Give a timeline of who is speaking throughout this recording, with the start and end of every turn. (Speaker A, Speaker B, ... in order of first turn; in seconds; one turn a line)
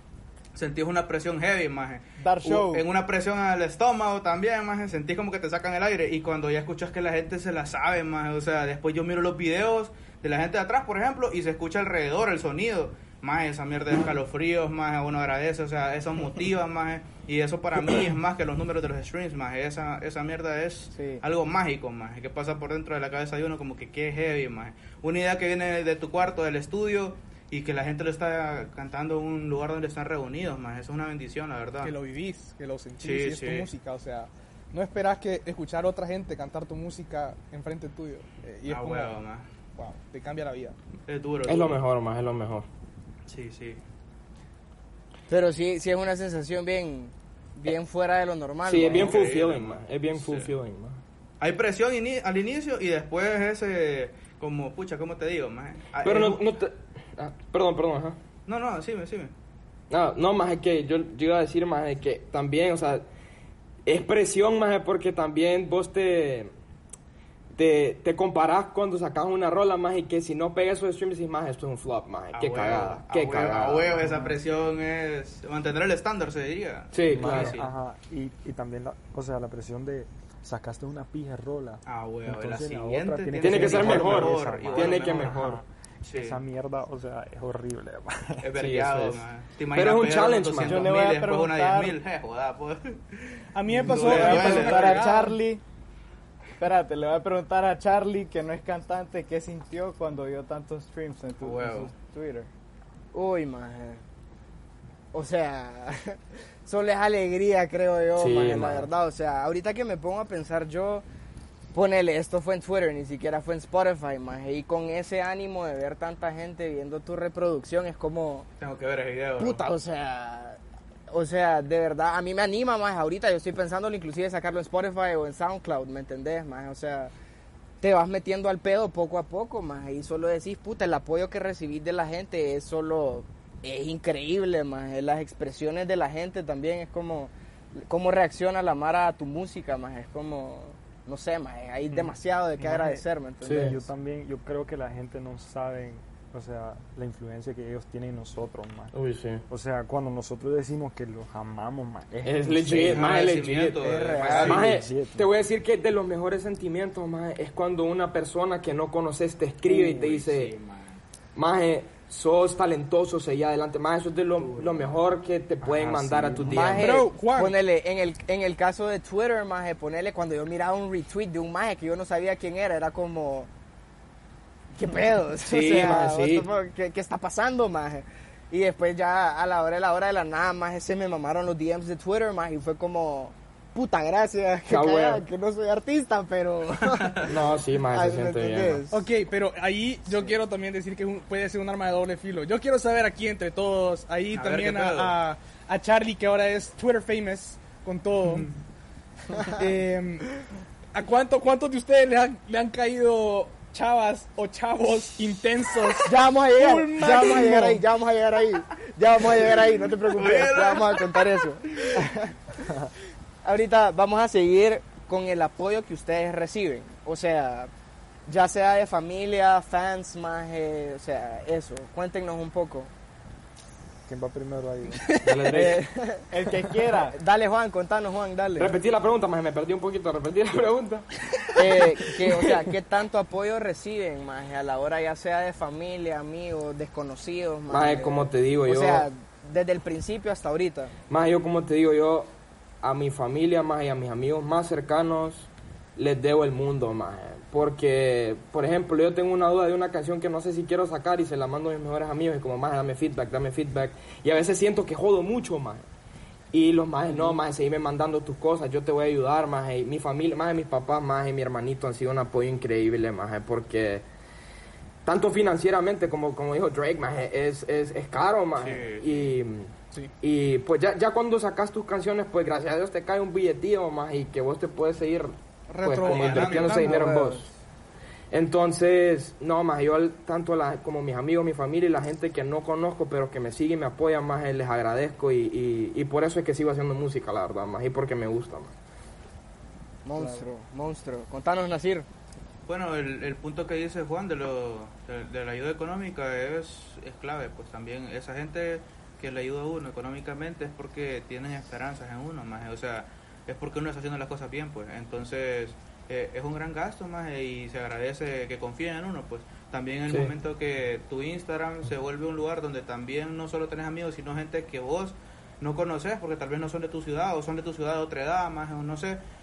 Speaker A: 0.6-31.9
Speaker B: 2.2-2.9
Speaker B: 20.9-21.2
Speaker C: 31.8-39.2
Speaker A: 33.0-33.7
Speaker A: 38.7-39.5
Speaker C: 39.8-40.8
Speaker A: 41.1-41.8
Speaker D: 41.5-42.7
Speaker A: 43.3-43.8
Speaker E: 45.3-49.1
Speaker D: 48.6-51.0
Speaker A: 48.9-50.5
Speaker A: 51.4-56.5
Speaker D: 56.0-58.2
Speaker A: 58.5-59.3
Speaker D: 59.9-63.1
Speaker D: 63.9-66.5
Speaker D: 67.5-74.0
Speaker A: 72.3-77.7
Speaker D: 76.9-77.6
Speaker F: 77.1-88.5
Speaker A: 81.9-85.6
Speaker D: 83.4-85.6
Speaker A: 86.1-86.4
Speaker A: 88.4-95.1
Speaker D: 88.6-91.0
Speaker B: 90.6-92.0
Speaker C: 93.5-95.4
Speaker B: 93.8-95.6
Speaker B: 96.6-102.5
Speaker A: 101.4-101.9
Speaker E: 103.1-104.0
Speaker E: 105.1-111.0
Speaker D: 108.2-108.9
Speaker E: 111.7-118.5
Speaker A: 118.6-119.7
Speaker E: 119.4-120.6
Speaker E: 121.1-127.1
Speaker E: 127.8-143.8
Speaker F: 141.9-148.9
Speaker D: 143.4-143.8
Speaker D: 148.9-149.4
Speaker F: 149.5-153.1
Speaker D: 152.2-160.6
Speaker A: 152.8-154.8
Speaker E: 153.8-154.7
Speaker F: 154.5-155.3
Speaker A: 159.8-161.0
Speaker D: 161.3-167.0
Speaker A: 164.4-164.9
Speaker F: 165.6-166.8
Speaker E: 166.4-173.5
Speaker C: 166.8-167.6
Speaker E: 174.8-187.2
Speaker D: 175.4-176.5
Speaker D: 184.7-185.2
Speaker A: 186.8-187.3
Speaker D: 187.2-188.8
Speaker E: 187.9-189.0
Speaker C: 188.9-198.5
Speaker A: 194.3-195.2
Speaker A: 198.2-198.5
Speaker C: 199.4-200.3
Speaker C: 200.9-207.8
Speaker E: 206.1-212.3
Speaker A: 210.1-212.0
Speaker E: 213.4-217.7
Speaker E: 218.3-222.9
Speaker F: 224.1-225.1
Speaker C: 225.0-225.3
Speaker D: 225.2-225.8
Speaker E: 225.5-226.3
Speaker B: 226.3-227.2
Speaker E: 227.1-228.7
Speaker D: 228.6-232.7
Speaker E: 231.6-240.9
Speaker D: 237.7-239.1
Speaker D: 241.1-255.8
Speaker D: 256.5-264.1
Speaker D: 265.1-277.5
Speaker A: 268.6-269.2
Speaker C: 275.7-277.3
Speaker A: 276.0-276.9
Speaker E: 276.8-277.5
Speaker D: 278.3-288.7
Speaker E: 290.1-292.1
Speaker A: 292.7-319.2